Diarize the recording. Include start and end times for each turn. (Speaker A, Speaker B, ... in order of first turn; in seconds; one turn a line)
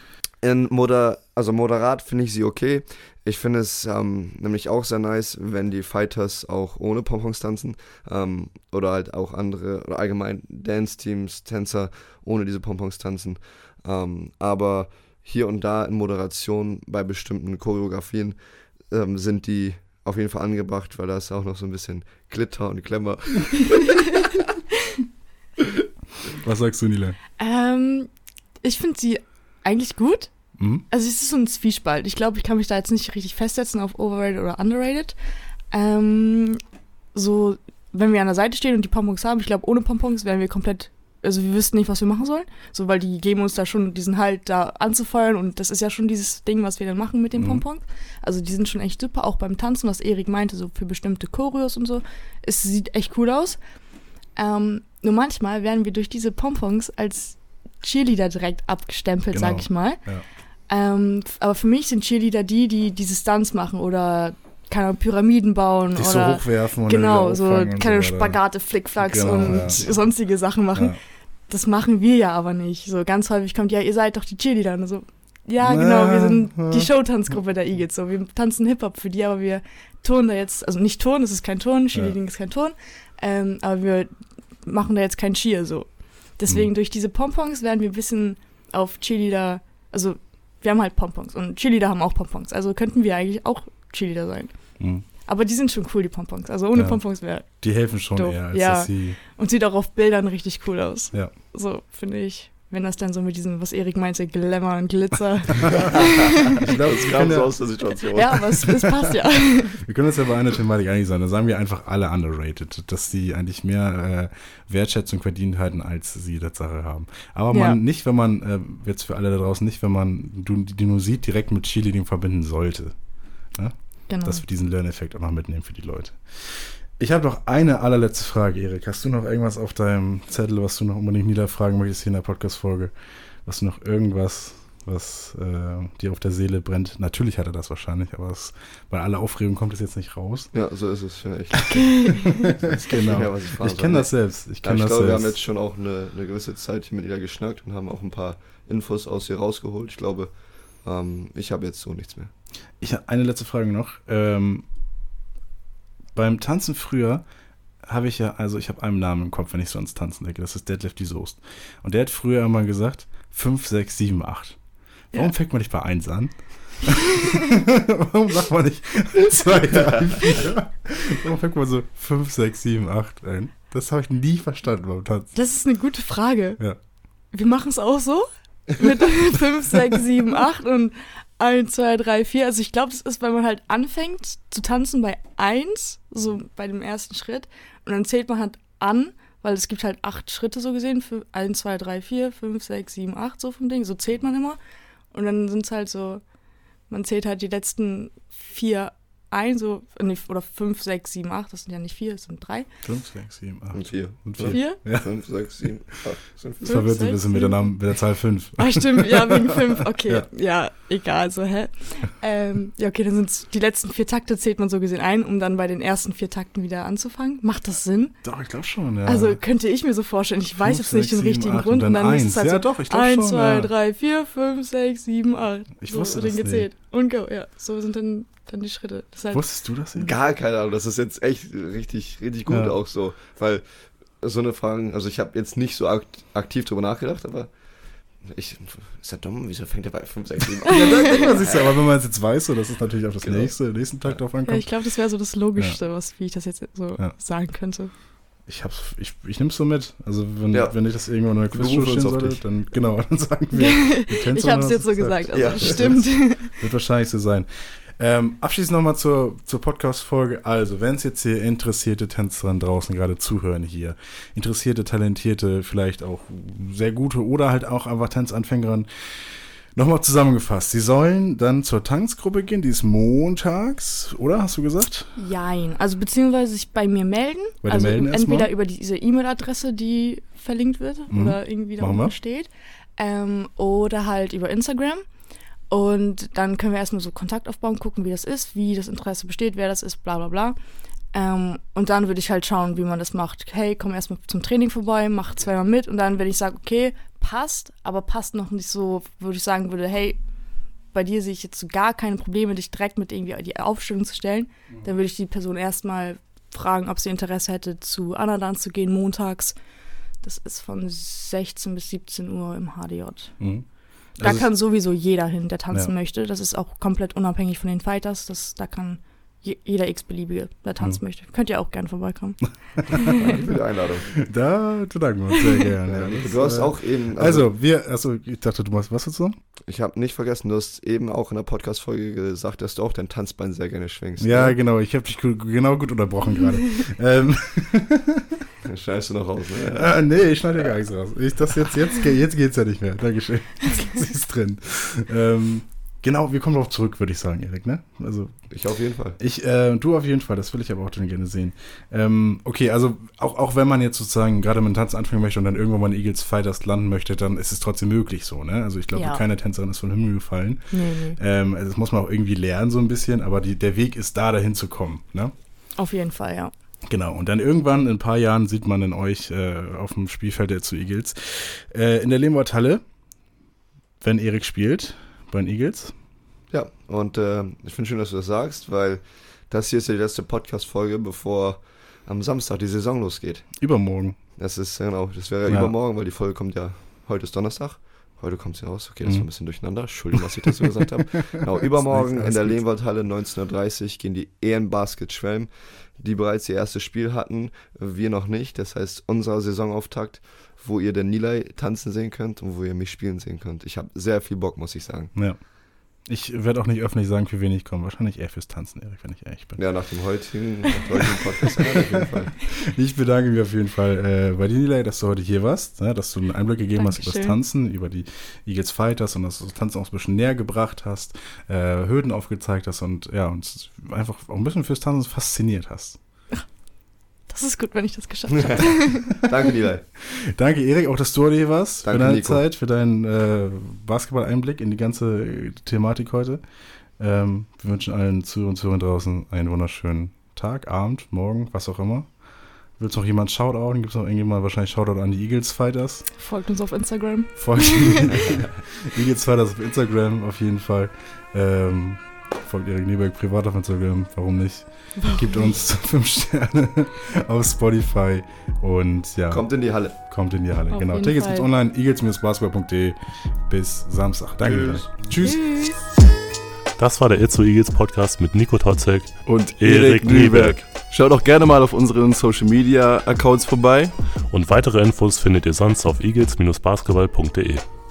Speaker A: 0.4-18.4
Speaker A: 18.9-23.9
Speaker B: 26.3-27.2
Speaker C: 27.4-28.1
Speaker C: 28.6-30.3
Speaker B: 30.6-30.8
Speaker C: 30.9-35.1
Speaker C: 35.7-36.6
Speaker C: 37.1-53.6
Speaker B: 47.4-47.6
Speaker C: 54.4-60.0
Speaker B: 59.3-60.2
Speaker C: 60.7-71.0
Speaker B: 65.9-68.4
Speaker B: 69.0-69.8
Speaker C: 71.5-84.1
Speaker B: 75.6-76.9
Speaker C: 84.6-94.5
Speaker B: 94.8-95.0
Speaker C: 95.2-97.6
Speaker B: 96.7-99.2
Speaker C: 98.1-106.6
Speaker A: 105.7-108.7
Speaker B: 106.6-107.5
Speaker C: 108.1-109.8
Speaker B: 109.5-122.9
Speaker C: 117.5-117.8
Speaker B: 123.5-132.9
Speaker C: 124.1-124.4
Speaker B: 133.4-140.5
Speaker A: 140.5-150.3
Speaker C: 141.7-142.4
Speaker B: 141.7-145.3
Speaker A: 150.8-152.3
Speaker B: 152.8-154.6
Speaker B: 156.1-157.2
Speaker B: 157.8-164.6
Speaker B: 165.1-175.3
Speaker A: 169.7-170.2
Speaker C: 175.3-176.6
Speaker C: 177.3-194.6
Speaker C: 195.1-196.2
Speaker C: 196.9-202.7
Speaker B: 202.8-205.1
Speaker A: 203.7-206.9
Speaker C: 204.5-204.8
Speaker C: 206.6-207.6
Speaker B: 206.6-209.5
Speaker C: 208.6-218.1
Speaker B: 218.2-219.4
Speaker C: 219.1-229.4
Speaker B: 220.6-223.7
Speaker B: 225.8-226.7
Speaker B: 229.3-230.1
Speaker A: 229.9-233.6
Speaker B: 232.5-232.7
Speaker A: 234.2-237.5
Speaker A: 238.2-241.8
Speaker B: 240.7-244.7
Speaker C: 240.7-241.0
Speaker A: 243.2-244.2
Speaker C: 244.4-247.9
Speaker B: 248.5-275.1
Speaker A: 250.5-252.4
Speaker C: 253.5-256.5
Speaker A: 255.3-256.0
Speaker C: 275.1-285.0
Speaker B: 277.6-278.5
Speaker B: 281.1-282.1
Speaker C: 285.7-290.6
Speaker C: 291.1-300.2
Speaker C: 300.9-309.5
Speaker C: 310.2-313.4
Speaker B: 313.4-313.6
Speaker B: 314.2-314.5
Speaker C: 314.2-323.3
Speaker A: 323.1-324.2
Speaker B: 324.2-329.4
Speaker A: 325.9-327.5
Speaker A: 329.7-334.6
Speaker B: 334.2-338.4
Speaker A: 338.6-340.8
Speaker B: 339.7-348.5
Speaker A: 348.5-349.2
Speaker B: 349.2-365.3
Speaker C: 358.9-359.2
Speaker C: 360.7-361.2
Speaker C: 365.8-366.5
Speaker B: 366.9-372.8
Speaker B: 374.0-375.9
Speaker A: 376.5-383.5
Speaker B: 383.6-384.1
Speaker A: 384.4-405.1
Speaker B: 385.5-385.7
Speaker B: 391.8-392.6
Speaker B: 406.0-409.6
Speaker A: 409.6-412.4
Speaker B: 412.6-426.0
Speaker C: 416.8-417.4
Speaker C: 427.3-429.3
Speaker A: 428.3-429.8
Speaker B: 430.0-436.4
Speaker A: 431.8-432.4
Speaker B: 437.0-442.1
Speaker B: 442.8-446.1
Speaker C: 446.1-448.2
Speaker B: 447.4-465.5
Speaker C: 454.9-455.5
Speaker A: 459.3-459.9
Speaker C: 460.7-461.5
Speaker A: 464.4-464.9
Speaker C: 465.2-465.8
Speaker D: 466.8-470.6
Speaker E: 469.2-474.0
Speaker D: 474.3-477.6